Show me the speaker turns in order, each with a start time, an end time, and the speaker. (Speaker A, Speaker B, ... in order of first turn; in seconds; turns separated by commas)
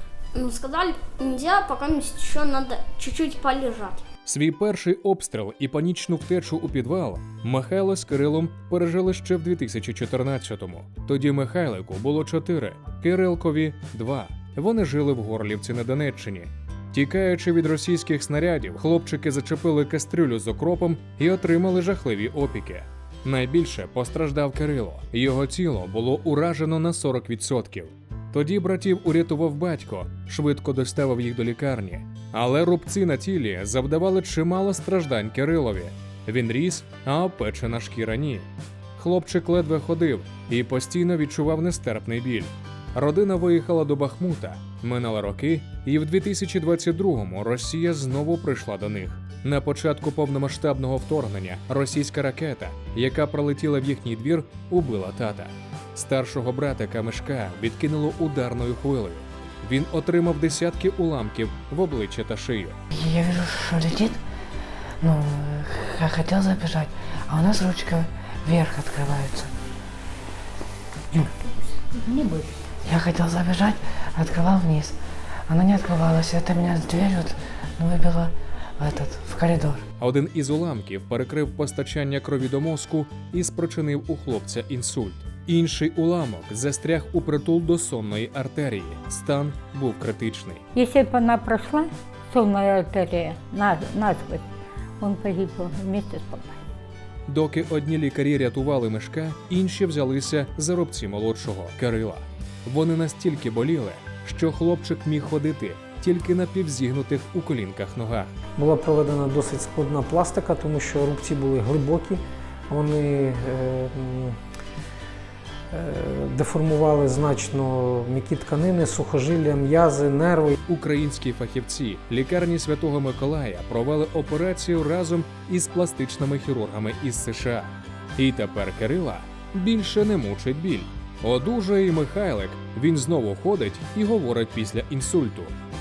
Speaker A: 0.3-4.0, Speaker B: 4.2-62.8, Speaker C: 62.9-64.2, Speaker C: 65.0-69.5, Speaker D: 71.5-72.6, Speaker C: 72.7-74.9, Speaker C: 75.5-79.8, Speaker B: 80.0-90.6, Speaker D: 90.7-94.5, Speaker D: 95.0-96.6, Speaker B: 97.3-108.3, Speaker E: 108.6-114.4, Speaker E: 115.7-120.6, Speaker B: 120.7-135.5